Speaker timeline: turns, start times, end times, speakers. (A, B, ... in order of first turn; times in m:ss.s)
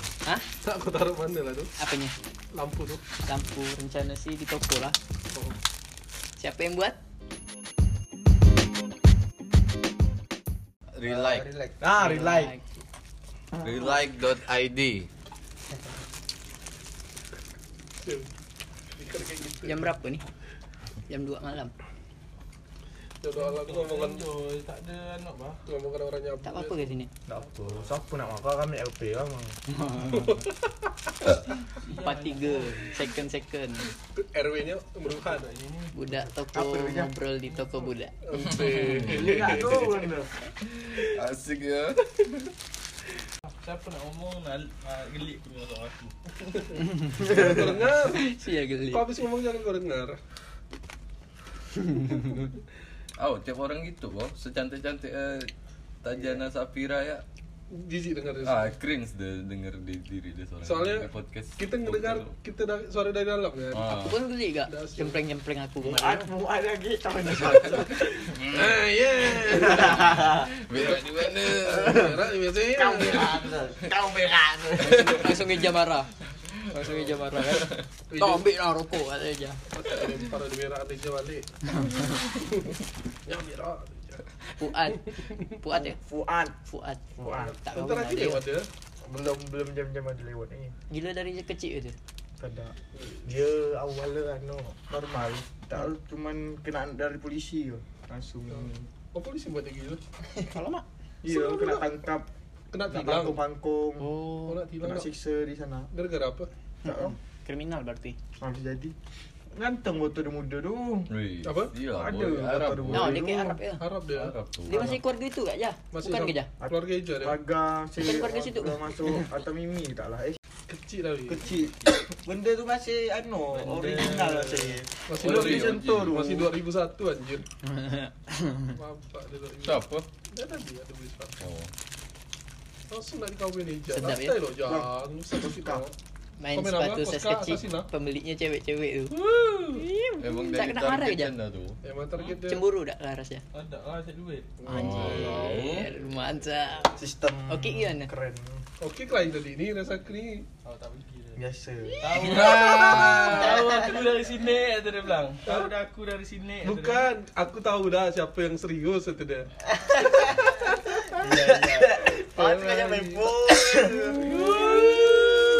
0:00.6-0:01.7 A
0:01.8-0:02.1 B
0:02.5-0:03.0 A
0:03.2-0:05.0 B
0:06.4-0:07.0 B
0:11.0-0:11.5 C
0:11.0-0:12.5 D
0:11.9-0:12.7 B
0:13.6-0:15.1 C
0:18.0-0:18.3 A
0:19.0-0:19.9 A
0:19.6-0:20.2 B
0:21.1-0:21.7 B
0:23.2-0:24.2 A
0:23.4-0:25.6 E
0:25.6-0:26.9 A
0:26.4-0:27.1 B
0:27.3-0:29.6 D
0:29.9-0:30.9 A
0:31.5-0:32.9 E
0:31.9-0:33.9 B
0:34.1-0:35.5 A
0:35.0-0:35.9 E
0:35.9-0:38.1 B
0:36.4-0:37.1 D
0:38.2-0:40.1 A
0:38.4-0:39.1 C
0:39.1-0:40.3 D
0:40.6-0:42.5 C
0:43.6-0:46.1 E
0:46.8-0:49.1 B
0:47.1-0:48.2 A
0:48.9-0:50.2 A
0:53.2-0:55.5 C
0:56.0-0:57.2 C
0:57.7-0:58.7 A
0:58.4-1:02.3 C
1:00.6-1:03.9 A
1:03.7-1:04.2 C
1:03.9-1:06.3 B
1:04.7-1:05.2 A
1:05.8-1:08.2 D
1:08.1-1:13.6 A
1:08.3-1:08.7 C
1:09.7-1:10.2 D
1:10.3-1:12.1 C
1:12.6-1:15.2 D
1:14.8-1:15.4 C
1:15.0-1:16.1 B
1:16.7-1:19.6 B
1:18.1-1:18.4 A
1:19.7-1:21.5 A
1:22.3-1:22.7 A
1:23.2-1:24.2 A
1:24.6-1:26.0 B
1:25.7-1:26.6 D
1:26.6-1:28.4 B
1:27.2-1:27.5 D
1:27.3-1:28.7 A
1:29.0-1:30.7 D
1:30.9-1:32.0 B
1:32.4-1:38.9 D
1:33.0-1:33.2 A
1:38.5-1:40.0 A
1:40.4-1:40.8 B
1:41.2-1:42.3 D
1:41.2-1:42.0 A
1:42.7-1:43.4 A
1:42.9-1:44.1 D
1:44.0-1:44.6 B
1:44.5-1:45.1 A
1:44.8-1:45.9 D
1:45.9-1:46.5 A
1:46.8-1:48.2 B
1:46.8-1:47.2 D
1:48.4-1:48.9 D
1:49.5-1:51.1 D
1:51.1-1:53.2 C
1:51.4-1:51.7 A
1:51.9-1:53.5 D
1:52.9-1:53.8 B
1:53.2-1:55.0 A
1:54.1-1:54.8 C
1:54.7-1:56.5 B
1:55.9-1:57.4 A
1:56.6-2:00.4 D
1:58.0-1:59.3 B
2:00.7-2:01.5 A
2:01.3-2:06.5 D
2:03.5-2:04.8 E
2:05.1-2:07.4 A
2:05.1-2:06.2 C
2:07.6-2:08.8 B
2:08.7-2:11.4 A
2:09.6-2:10.1 C
2:11.4-2:11.7 C
2:12.9-2:15.9 A
2:13.9-2:14.4 B
2:14.6-2:15.8 D
2:16.4-2:19.1 B
2:16.5-2:17.9 A
2:19.2-2:19.8 E
2:19.7-2:21.3 B
2:20.2-2:21.8 C
2:21.8-2:22.6 A
2:22.4-2:23.4 B
2:23.5-2:24.6 E
2:24.6-2:25.6 A
2:24.6-2:28.1 B
2:24.7-2:25.9 C
2:27.0-2:28.6 D
2:28.8-2:30.5 A
2:30.6-2:31.4 E
2:31.4-2:32.1 D
2:32.0-2:37.1 E
2:32.2-2:33.5 C
2:36.6-2:39.5 A
2:40.0-2:40.6 D
2:41.0-2:41.5 A
2:41.1-2:44.7 D
2:42.0-2:43.4 A
2:43.9-2:45.3 A
2:44.3-2:45.0 E